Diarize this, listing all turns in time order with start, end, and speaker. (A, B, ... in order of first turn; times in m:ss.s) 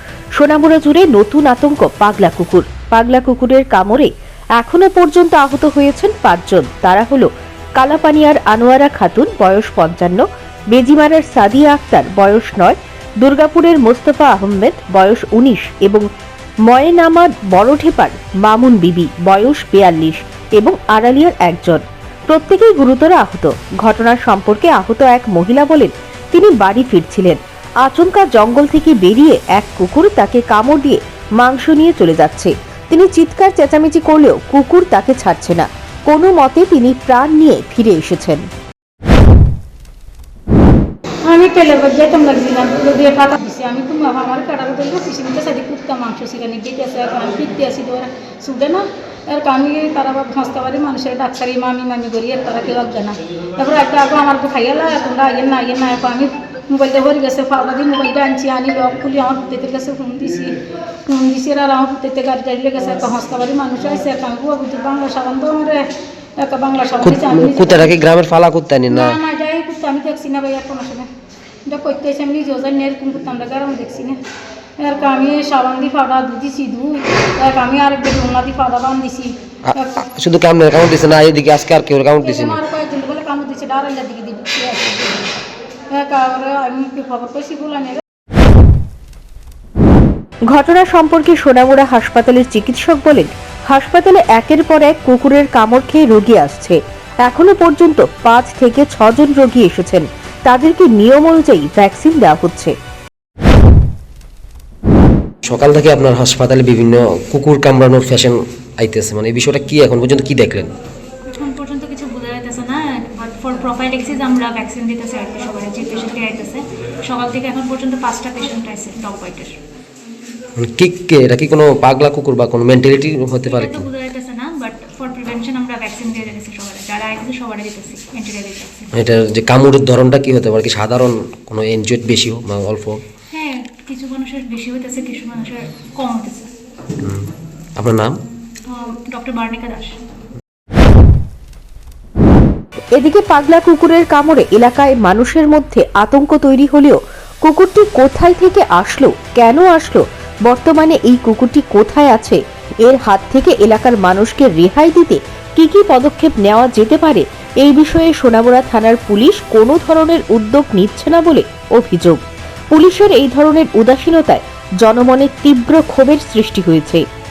0:00.4-0:16.0 A
0:16.7-0:38.5 A
0:41.2-1:00.6 B
1:01.1-1:07.9 B
1:07.0-1:09.2 C
1:08.9-1:11.1 B
1:11.7-1:14.2 B
1:14.8-1:19.9 B
1:19.7-1:22.6 C
1:22.2-1:28.0 B
1:30.5-1:42.7 A
1:45.4-1:50.7 C
1:51.3-1:59.6 D
2:00.6-2:03.9 C
2:03.4-2:08.9 D
2:08.9-2:13.0 C
2:13.3-2:16.5 D
2:17.0-2:18.1 C
2:18.7-2:20.0 D
2:23.0-2:42.2 A
2:42.7-2:47.0 A